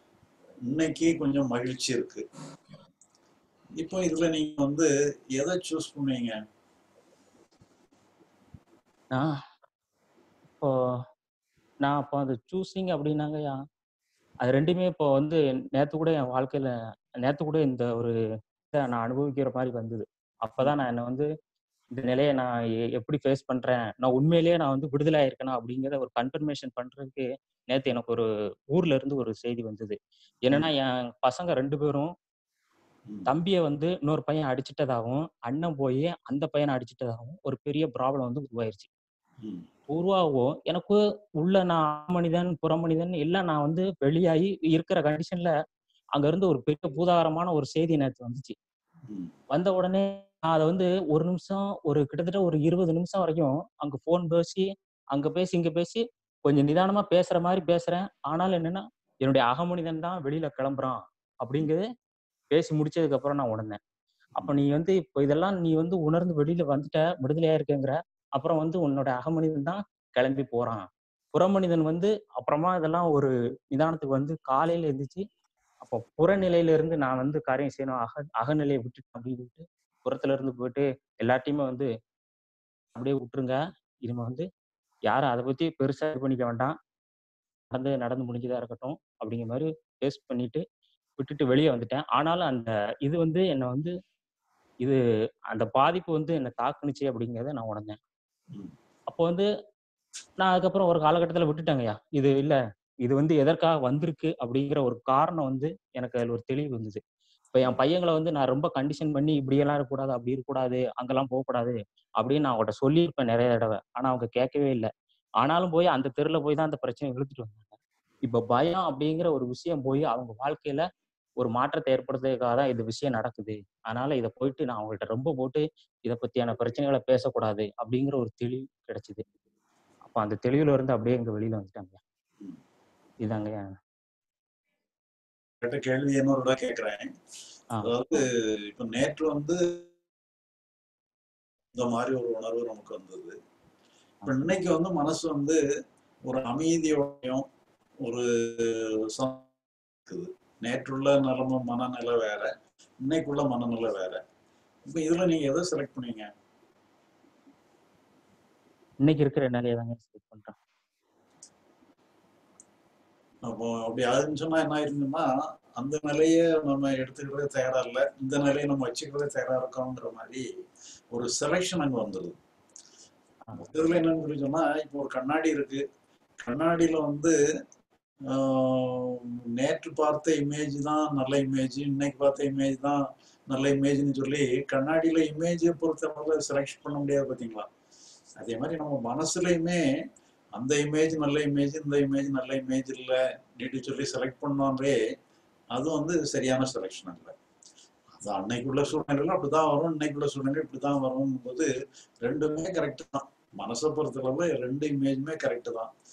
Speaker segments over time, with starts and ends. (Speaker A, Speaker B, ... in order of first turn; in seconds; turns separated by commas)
Speaker A: 0.7-2.2, Speaker A: 3.8-6.4, Speaker B: 11.8-13.5, Speaker B: 14.4-18.1, Speaker B: 18.7-21.3, Speaker B: 21.9-32.1, Speaker B: 33.3-38.9, Speaker A: 39.4-39.7, Speaker B: 39.9-45.5, Speaker B: 46.1-48.5, Speaker A: 49.1-49.3, Speaker B: 49.5-61.9, Speaker B: 62.5-63.8, Speaker B: 64.4-75.2, Speaker B: 75.8-81.9, Speaker B: 82.9-84.5, Speaker B: 85.1-86.8, Speaker B: 87.7-90.6, Speaker B: 91.2-93.9, Speaker B: 95.5-98.0, Speaker B: 99.1-99.5, Speaker B: 100.4-107.0, Speaker B: 107.5-117.7, Speaker B: 118.2-120.8, Speaker B: 121.4-129.2, Speaker B: 130.0-132.0, Speaker B: 133.2-133.8, Speaker A: 135.6-137.1, Speaker A: 137.8-139.8, Speaker A: 141.7-143.3, Speaker A: 144.2-145.6, Speaker A: 146.2-147.5, Speaker A: 148.0-149.5, Speaker A: 150.1-152.5, Speaker A: 153.0-154.2, Speaker A: 154.9-156.3, Speaker B: 159.0-160.6, Speaker A: 163.4-170.4, Speaker A: 171.1-172.4, Speaker A: 173.5-175.8, Speaker A: 176.4-177.3, Speaker A: 178.3-187.7, Speaker A: 188.4-189.8, Speaker A: 190.5-195.0, Speaker A: 195.7-197.3, Speaker A: 198.2-201.7, Speaker A: 202.2-205.9